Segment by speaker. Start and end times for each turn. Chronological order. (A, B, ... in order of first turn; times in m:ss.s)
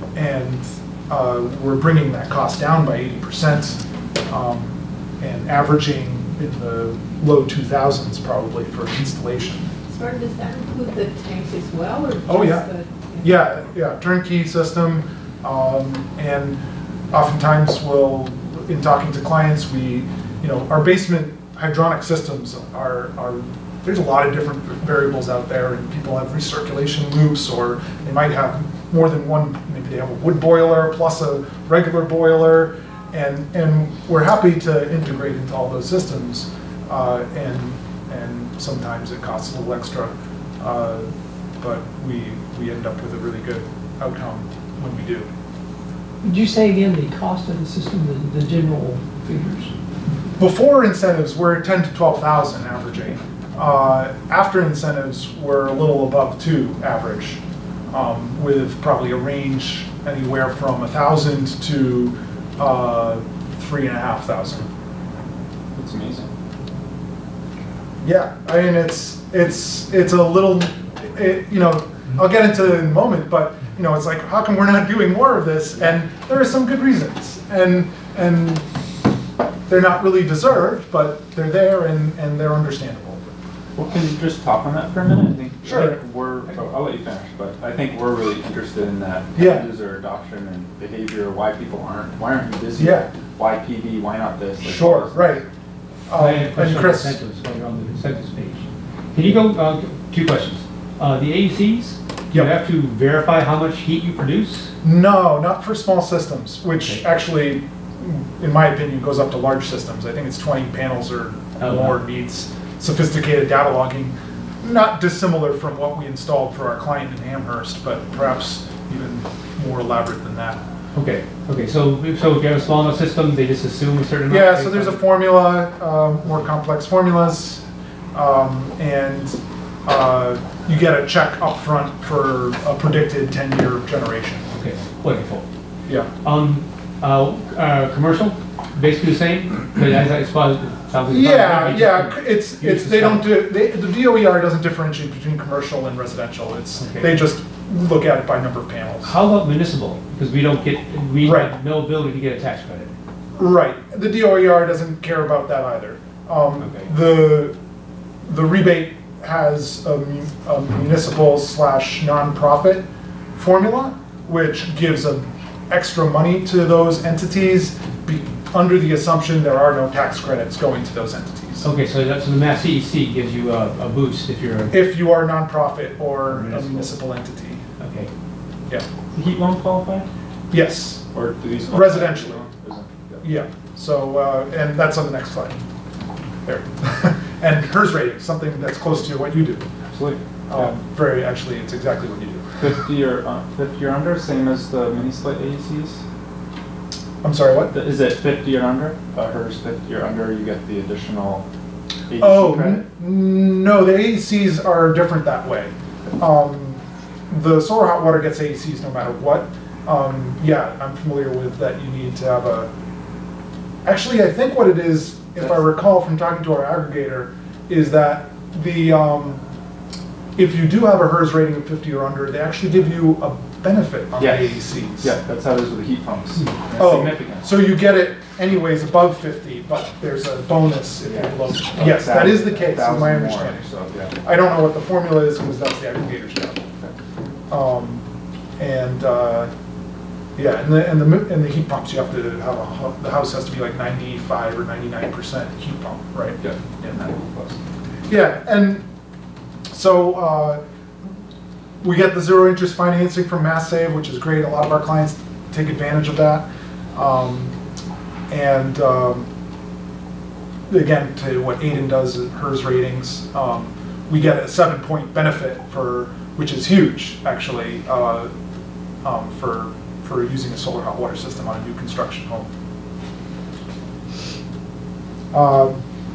0:00.2-0:09.7 A
0:09.9-0:13.2 B
0:12.3-0:12.7 A
0:13.2-0:16.6 A
0:17.1-0:41.1 A
0:41.6-0:45.3 A
0:46.2-0:49.7 C
0:50.4-1:04.7 A
1:05.8-1:06.3 D
1:08.0-1:18.6 A
1:19.7-1:23.3 A
1:23.8-1:35.4 D
1:25.6-1:26.0 A
1:29.4-1:29.7 A
1:32.8-1:33.1 A
1:34.6-1:35.4 A
1:36.1-1:37.2 A
1:36.2-1:44.7 E
1:44.8-2:00.6 A
1:51.6-1:52.0 E
2:01.0-2:05.0 E
2:04.3-2:14.5 A
2:14.5-2:15.5 E
2:16.2-2:23.3 E
2:21.1-2:29.1 A
2:26.8-2:27.2 E
2:29.0-2:32.9 E
2:31.2-2:31.6 A
2:33.4-2:37.6 A
2:36.6-2:36.9 E
2:38.2-2:51.7 A
2:51.6-2:54.8 E
2:54.7-2:57.6 A
2:56.3-2:56.9 E
2:57.8-2:58.1 E
2:59.1-3:00.1 D
3:00.5-3:01.1 A
3:01.1-3:03.2 D
3:01.7-3:02.4 A
3:03.2-3:05.6 A
3:06.4-3:09.7 A
3:09.8-3:10.7 D
3:10.5-3:12.4 A
3:12.6-3:16.0 D
3:17.2-3:17.7 A
3:17.7-3:21.4 D
3:22.1-3:22.8 D
3:22.2-3:32.7 A
3:33.8-3:39.4 A
3:40.4-3:45.2 A
3:44.2-3:47.4 D
3:46.8-3:53.6 A
3:51.0-3:54.2 D
3:54.2-3:56.6 A
3:57.5-3:58.0 A
3:58.6-3:59.5 A
4:00.4-4:06.4 A
4:06.4-4:07.6 D
4:08.1-4:08.9 A
4:09.7-4:10.6 A
4:11.8-4:17.6 A
4:18.3-4:19.3 A
4:20.7-4:28.3 A
4:29.0-4:32.5 A
4:35.3-4:35.8 A